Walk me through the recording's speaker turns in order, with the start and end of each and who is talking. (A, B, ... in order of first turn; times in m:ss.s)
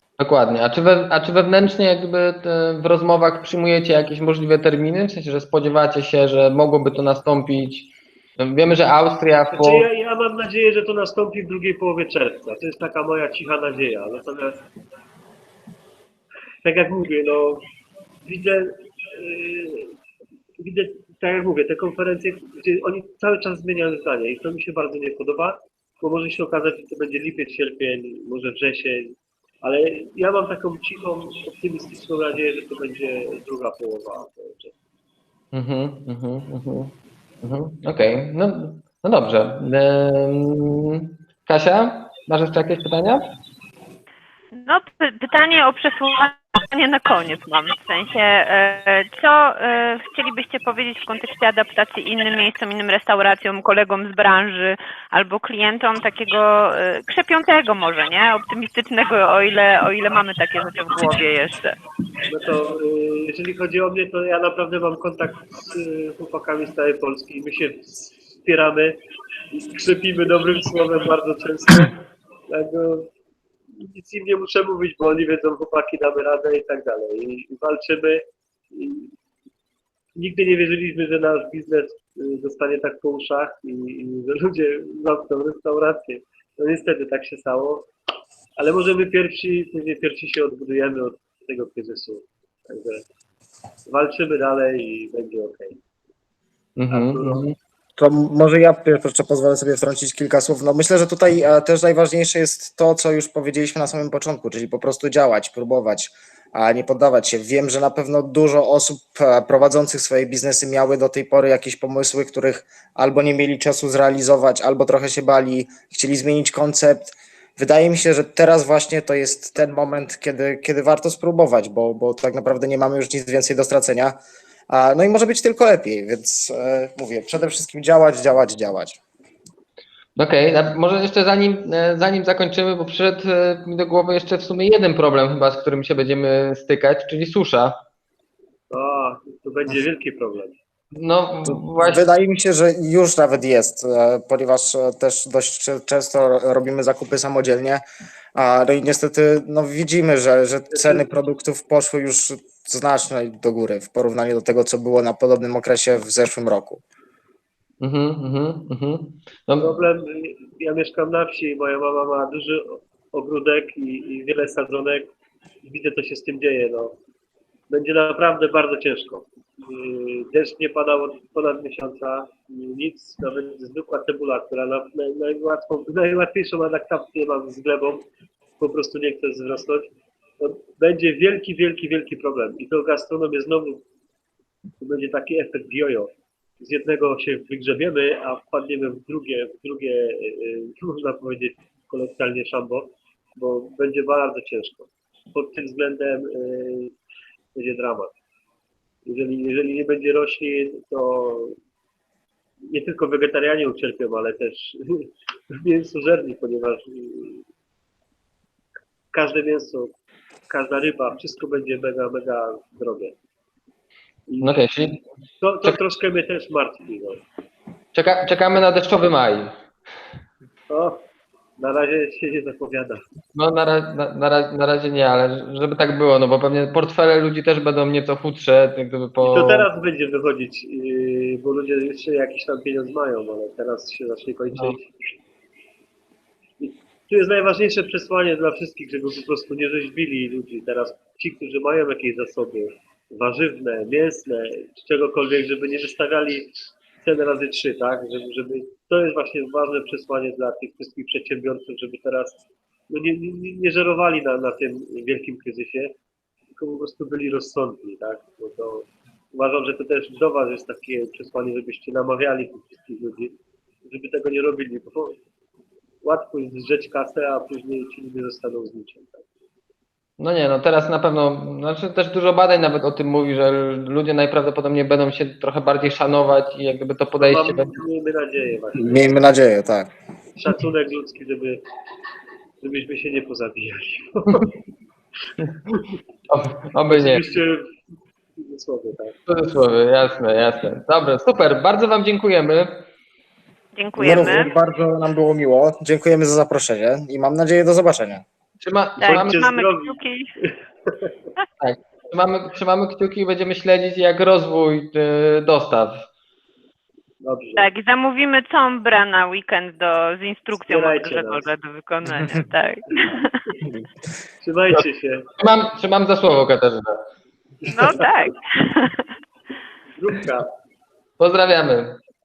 0:00.2-0:09.9 A
0:09.5-0:14.6 B
0:16.6-0:17.7 B
0:18.2-0:20.0 B
0:20.6-0:34.7 B
0:35.5-0:43.2 A
0:44.6-1:01.8 C
1:02.3-1:09.0 B
1:09.5-1:13.1 B
1:13.7-1:19.1 B
1:20.2-1:27.9 B
1:28.6-1:33.0 B
1:33.9-1:35.8 B
1:36.8-1:37.6 A
1:36.9-1:37.4 B
1:38.0-2:04.2 D
2:04.7-2:09.0 D
2:10.2-2:17.8 A
2:18.7-2:20.6 B
2:20.9-2:22.0 A
2:21.4-2:27.8 D
2:28.4-2:36.8 D
2:30.7-2:31.1 B
2:37.8-2:39.7 A
2:39.6-2:45.1 B
2:45.6-2:47.0 B
2:47.7-2:58.1 B
2:58.6-2:59.9 B
3:00.4-3:03.8 B
3:04.8-3:17.0 B
3:17.6-3:18.1 B
3:19.1-3:21.6 B
3:22.7-3:27.5 B
3:29.1-3:30.0 B
3:30.5-3:33.2 B
3:34.3-3:34.7 B
3:34.4-3:35.0 A
3:35.4-3:37.2 B
3:37.9-3:39.6 A
3:40.7-3:41.1 B
3:41.6-3:43.0 B
3:43.4-3:49.7 A
3:49.2-3:54.9 B
3:56.6-4:12.4 B
4:12.9-4:16.0 B
4:16.6-4:25.2 B
4:26.0-4:29.3 B
4:30.2-4:37.8 A
4:37.2-4:39.1 B
4:38.8-4:39.9 D
4:40.4-4:41.6 B
4:42.6-4:44.6 B
4:46.3-4:47.2 A
4:46.9-4:47.7 B
4:48.4-4:49.2 B
4:49.3-4:52.9 A
4:53.8-4:54.5 C
4:54.0-4:58.2 D
4:58.6-4:59.6 A
4:59.0-5:00.3 C
4:59.0-5:01.1 B
5:01.6-5:06.1 A
5:07.2-5:07.7 B
5:07.6-5:13.4 C
5:10.6-5:11.5 B
5:12.9-5:13.2 B
5:14.4-5:15.3 B
5:15.4-5:17.0 A
5:17.6-5:18.0 B
5:17.7-5:19.1 C
5:20.0-5:20.5 B
5:21.2-5:22.0 A